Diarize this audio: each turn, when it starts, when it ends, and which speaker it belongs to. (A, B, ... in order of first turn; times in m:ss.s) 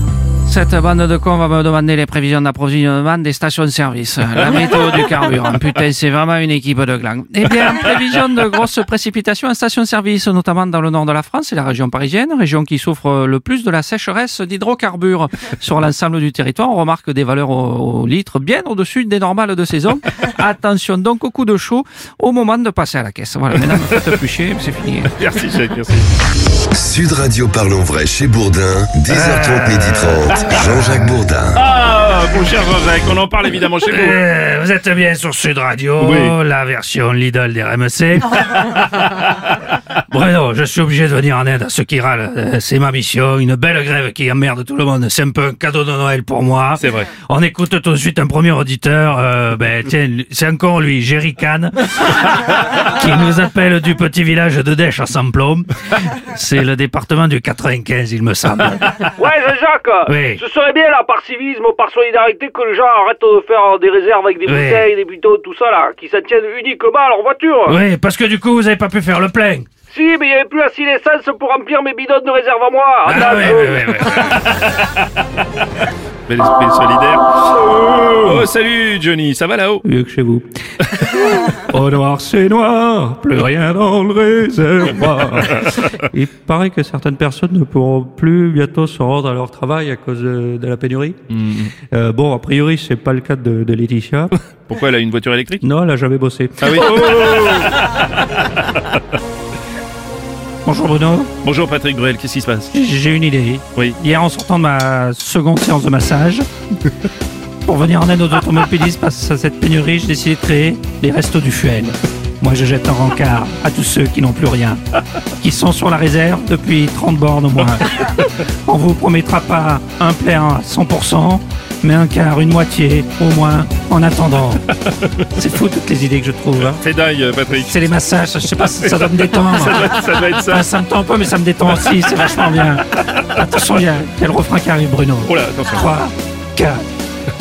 0:00.4-0:25.1 A
0:04.4-0:05.1 B
0:23.8-0:24.1 B
0:25.2-0:26.1 B
0:26.7-0:31.6 C
0:29.1-0:30.9 A
0:31.5-0:34.2 B
0:33.8-0:59.1 A
0:36.0-0:36.3 B
0:46.8-0:47.1 B
0:59.2-1:07.8 D
1:00.0-1:00.4 A
1:04.4-1:04.9 A
1:07.6-1:09.7 A
1:09.9-1:13.8 D
1:13.0-1:14.6 A
1:14.3-1:14.8 B
1:16.3-1:19.8 B
1:19.8-1:20.5 A
1:21.0-1:31.2 A
1:31.3-1:31.7 B
1:31.9-1:34.3 A
1:34.6-1:35.6 B
1:35.6-1:37.5 A
1:36.6-1:39.0 B
1:40.6-1:41.3 A
1:41.4-1:42.7 B
1:42.7-1:46.4 A
1:47.6-1:54.8 A
1:55.4-2:04.6 A
2:04.9-2:05.3 B
2:05.4-2:06.8 A
2:06.6-2:08.0 B
2:07.6-2:16.8 A
2:08.6-2:10.7 B
2:15.2-2:16.0 B